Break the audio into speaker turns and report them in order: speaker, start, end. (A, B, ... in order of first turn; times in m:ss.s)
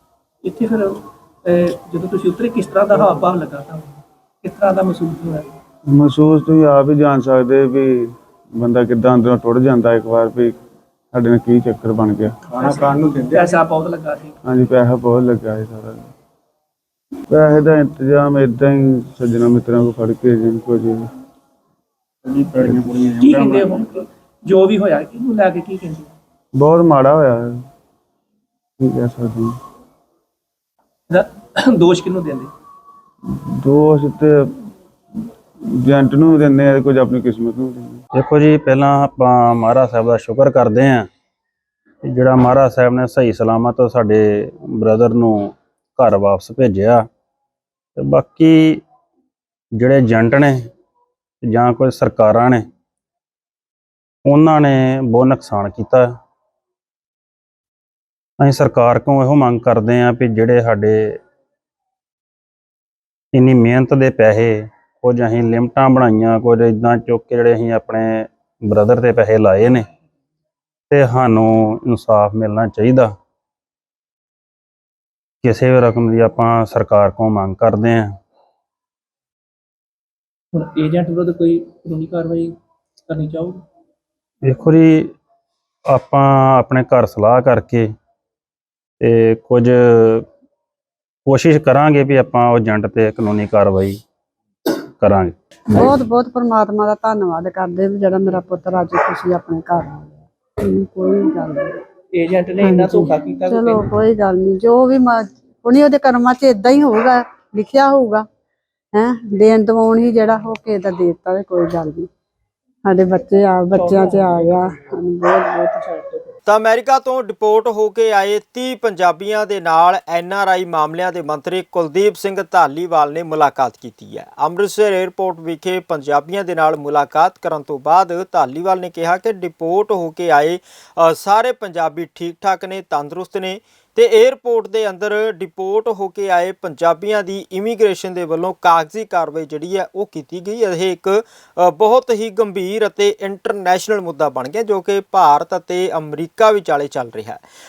0:00.4-0:05.5 A
0:05.9-0:10.6 B
0:11.1-0:12.4 B
0:12.5-0:14.4 A
0:14.4-0:16.1 B
0:17.3-0:21.1 B
0:22.6-0:26.1 A
0:22.6-0:22.9 B
0:23.3-0:23.6 C
0:26.5-0:27.6 B
0:28.8-0:29.6 B
0:31.1-0:32.5 A
0:33.3-0:34.6 B
0:35.7-0:38.0 B
0:38.2-0:41.1 C
0:42.0-0:47.1 C
0:48.0-0:48.8 C
0:49.8-0:50.7 C
0:51.4-0:52.6 C
0:54.2-0:56.2 C
0:58.4-1:01.2 C
1:03.3-1:09.9 C
1:10.9-1:13.1 C
1:15.4-1:18.2 C
1:20.5-1:22.6 A
1:23.1-1:23.6 A
1:24.4-1:25.1 C
1:25.9-1:27.9 C
1:29.0-1:30.2 C
1:31.2-1:34.0 C
1:35.0-1:35.4 C
1:35.7-1:41.8 D
1:42.1-1:43.8 A
1:42.6-1:48.2 D
1:48.9-1:52.1 D
1:52.8-1:55.6 D
1:53.7-1:54.6 A
1:55.4-1:56.1 A
1:56.4-2:27.4 E